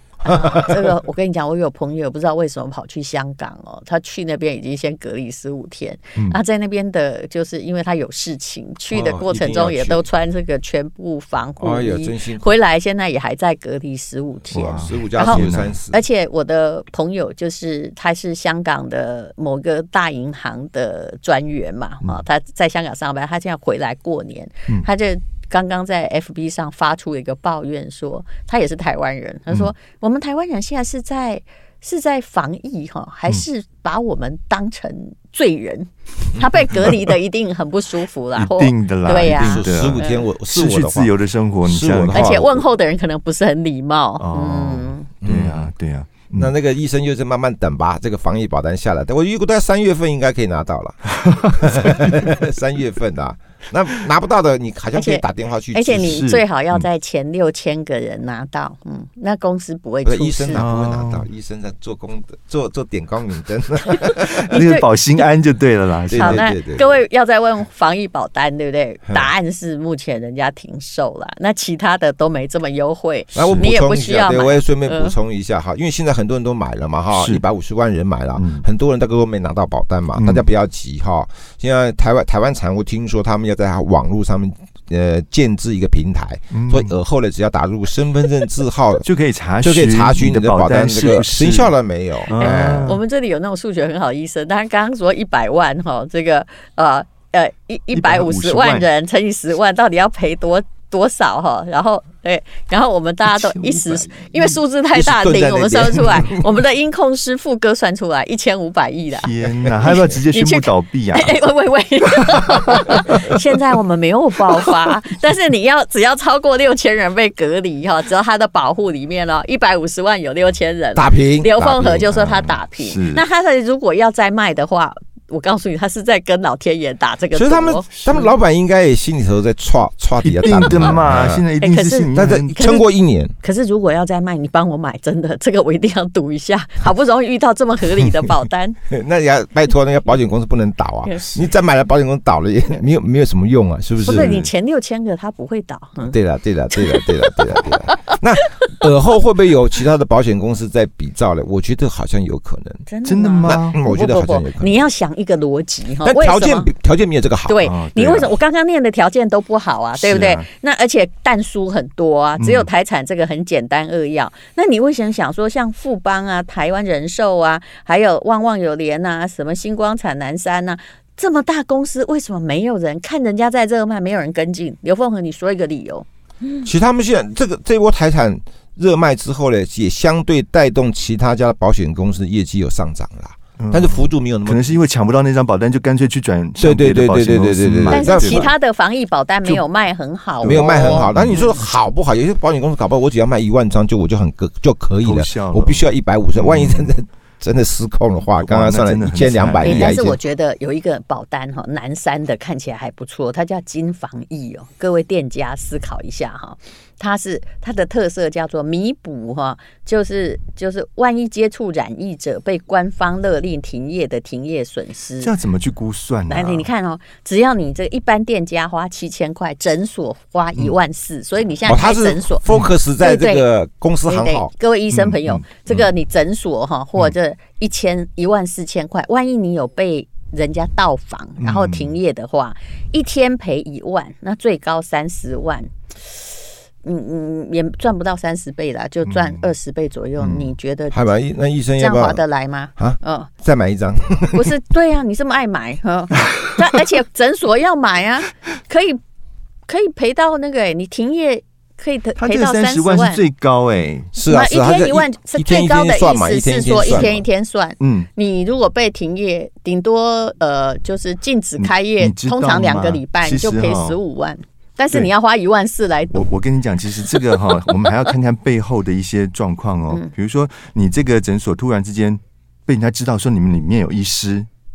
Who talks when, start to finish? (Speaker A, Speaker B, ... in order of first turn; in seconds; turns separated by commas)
Speaker A: 0.2-0.9, Speaker B: 0.2-40.3, Speaker A: 8.9-10.0, Speaker A: 11.6-12.6, Speaker C: 14.5-15.8, Speaker A: 14.8-16.0, Speaker C: 38.4-42.5, Speaker A: 39.2-41.1, Speaker A: 41.6-42.6, Speaker B: 42.1-45.1, Speaker C: 44.2-46.5, Speaker A: 45.2-45.7, Speaker A: 46.3-56.2, Speaker B: 54.9-60.7, Speaker C: 55.9-56.8, Speaker A: 60.0-64.4, Speaker C: 60.5-61.3, Speaker C: 64.2-66.5, Speaker B: 64.5-64.9, Speaker A: 66.1-67.0, Speaker B: 66.1-75.2, Speaker A: 73.3-89.0, Speaker C: 73.3-73.7, Speaker C: 77.1-77.4, Speaker C: 78.3-78.6, Speaker C: 80.1-80.5, Speaker C: 86.5-86.9, Speaker C: 89.0-91.7, Speaker A: 89.6-93.0, Speaker C: 92.3-93.0, Speaker B: 92.4-109.3, Speaker C: 97.9-98.9, Speaker A: 103.5-104.0, Speaker A: 104.9-106.5, Speaker C: 109.1-111.3, Speaker B: 109.8-128.2, Speaker A: 120.9-122.1, Speaker C: 122.1-123.2, Speaker A: 127.3-131.4, Speaker C: 128.0-128.2, Speaker C: 130.2-132.5, Speaker B: 131.6-132.9, Speaker A: 132.1-133.3, Speaker B: 133.4-138.8, Speaker A: 138.9-144.5, Speaker B: 141.0-141.4, Speaker B: 144.0-146.2, Speaker A: 146.0-152.8, Speaker B: 152.9-156.7, Speaker C: 153.0-153.8, Speaker A: 153.4-154.8, Speaker A: 156.0-157.7, Speaker B: 157.5-176.7, Speaker C: 157.6-158.3, Speaker C: 160.0-160.5, Speaker C: 162.4-162.7, Speaker A: 176.6-184.8, Speaker C: 183.6-188.5, Speaker A: 186.6-188.5, Speaker B: 187.9-191.1, Speaker C: 190.4-191.6, Speaker A: 190.4-200.2, Speaker C: 195.0-196.9, Speaker C: 198.4-200.0, Speaker B: 199.6-215.3, Speaker C: 215.2-216.7, Speaker B: 216.3-222.5, Speaker A: 221.7-224.5, Speaker B: 223.0-223.4, Speaker B: 224.0-236.3, Speaker C: 224.9-225.9, Speaker C: 231.4-232.0, Speaker B: 236.8-241.1, Speaker C: 239.1-239.5, Speaker A: 240.2-242.2, Speaker B: 241.8-243.3, Speaker A: 242.8-244.5, Speaker B: 244.3-249.0, Speaker B: 249.7-253.2, Speaker C: 252.2-254.1, Speaker A: 254.1-257.2, Speaker B: 254.3-266.3, Speaker C: 256.9-257.2, Speaker C: 257.8-258.1, Speaker C: 261.6-264.0, Speaker C: 266.1-274.5